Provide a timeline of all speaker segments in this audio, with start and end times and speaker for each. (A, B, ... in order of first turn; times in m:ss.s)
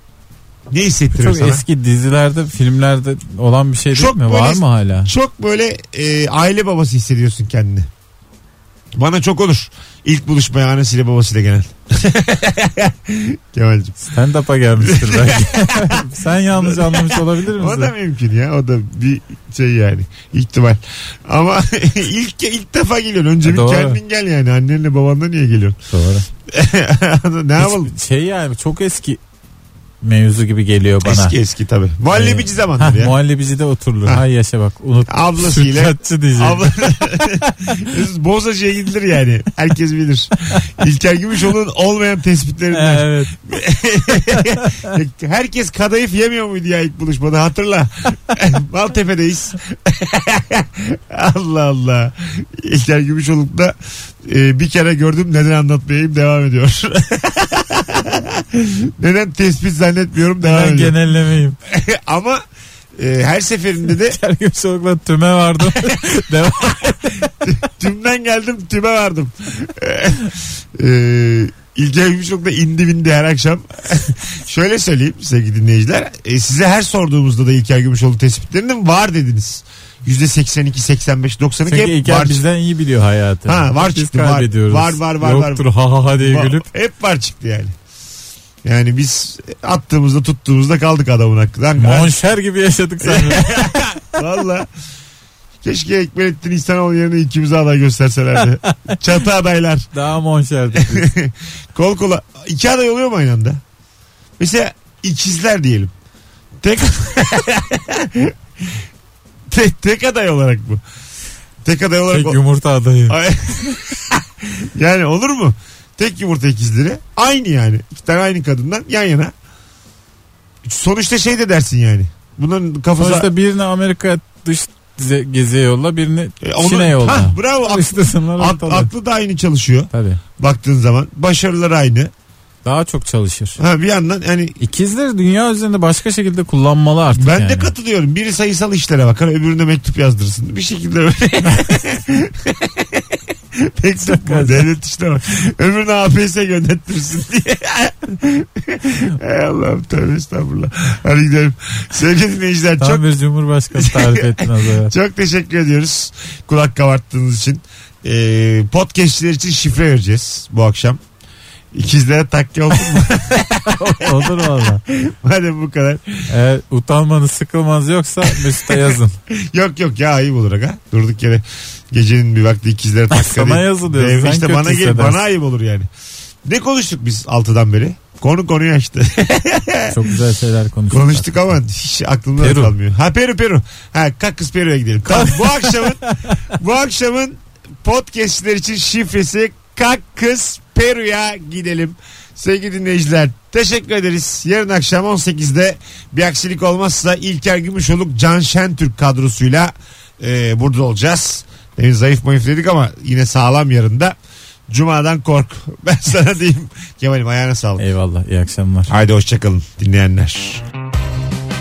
0:00.7-0:01.6 A
0:01.1-0:05.1 B
0:04.0-0:07.9 A
0:09.0-0:14.0 A
0:14.0-0:17.9 B
0:14.8-0:25.8 A
0:23.4-0:24.0 B
0:25.9-0:26.3 B
0:26.5-0:27.9 A
0:27.6-0:29.2 B
0:30.0-0:31.4 B
0:31.0-0:33.2 A
0:32.1-0:37.9 B
0:35.1-1:01.0 A
0:42.7-0:43.3 B
0:44.1-0:44.9 B
1:00.4-1:01.6 B
1:01.6-1:02.4 A
1:03.0-1:04.2 A
1:03.9-1:07.3 B
1:05.6-1:06.0 A
1:07.4-1:22.4 A
1:21.7-1:26.7 B
1:23.5-1:27.7 A
1:28.6-1:32.2 A
1:31.8-1:33.8 B
1:33.0-1:34.7 A
1:35.6-1:39.9 A
1:38.6-1:39.0 B
1:39.9-1:41.1 B
1:40.7-1:43.6 A
1:44.4-1:45.9 A
1:46.6-1:48.8 A
1:49.5-1:50.8 A
1:51.6-1:52.4 A
1:52.1-1:53.2 B
1:53.1-1:59.3 A
2:00.6-2:03.3 A
2:03.0-2:08.9 B
2:06.4-2:12.1 A
2:09.9-2:10.2 B
2:12.6-2:13.6 B
2:13.6-2:14.6 A
2:14.6-2:17.7 B
2:17.2-2:33.1 A
2:24.1-2:24.7 B
2:32.8-2:34.9 B
2:33.7-2:41.0 A
2:41.7-2:46.3 A
2:43.6-2:44.8 B
2:46.3-2:49.2 B
2:48.2-2:55.9 A
2:53.1-2:55.2 B
2:56.4-3:00.1 A
2:59.9-3:01.5 B
3:00.9-3:24.2 A
3:02.4-3:02.7 B
3:05.1-3:06.5 B
3:24.7-3:27.8 A
3:27.8-3:28.9 B
3:28.9-3:30.6 A